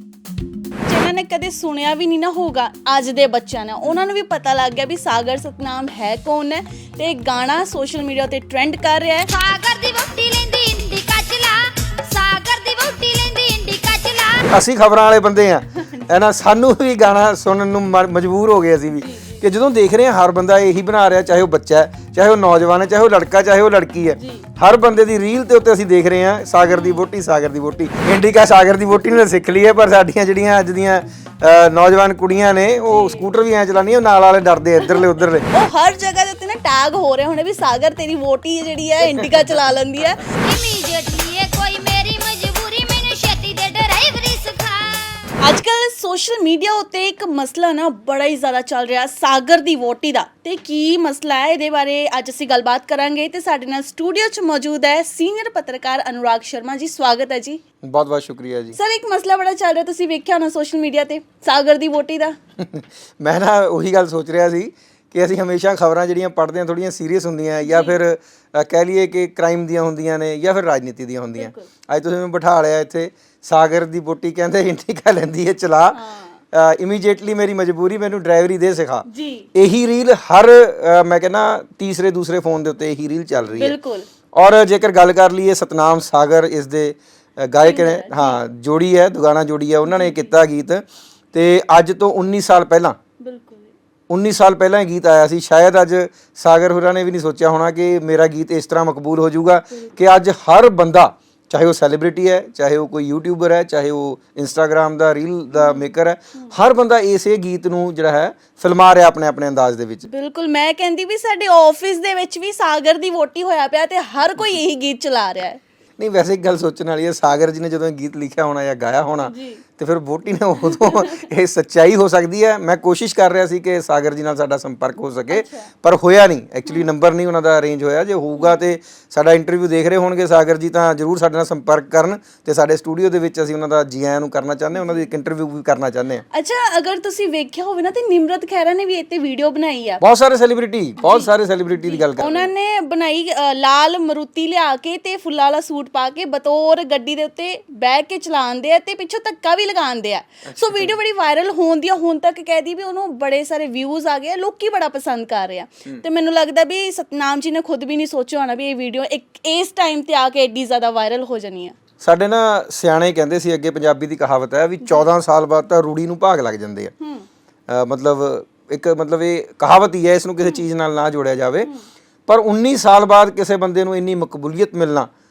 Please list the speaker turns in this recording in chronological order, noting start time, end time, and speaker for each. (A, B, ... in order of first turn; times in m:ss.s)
0:00.8-0:09.3 A
0:09.3-0:14.5 B
0:14.4-0:35.4 C
0:18.9-0:19.4 A
0:24.2-0:24.5 A
0:26.6-0:27.1 A
0:32.9-0:33.3 A
0:34.8-0:40.3 A
0:40.3-0:45.3 B
0:45.4-0:57.6 A
0:57.8-0:58.8 C
0:58.7-1:02.4 A
1:02.6-1:16.0 C
1:07.6-1:08.0 A
1:11.4-1:11.7 A
1:15.9-1:16.4 A
1:16.5-1:23.8 C
1:19.1-1:19.5 A
1:23.5-1:24.1 A
1:24.3-1:33.0 C
1:27.6-1:28.4 A
1:29.8-1:30.4 A
1:33.2-1:33.7 A
1:34.1-1:50.1 C
1:39.7-1:40.0 A
1:45.5-1:46.5 A
1:50.0-1:55.6 A
1:56.0-2:16.2 C
1:59.2-1:59.6 A
2:00.7-2:01.2 A
2:05.3-2:05.7 A
2:14.8-2:15.1 A
2:16.3-2:20.0 A
2:20.0-2:22.5 C
2:21.0-2:41.7 A
2:30.5-2:30.9 C
2:42.0-2:46.9 C
2:44.8-2:45.1 A
2:47.0-2:47.2 A
2:47.7-2:51.7 C
2:52.3-2:55.1 C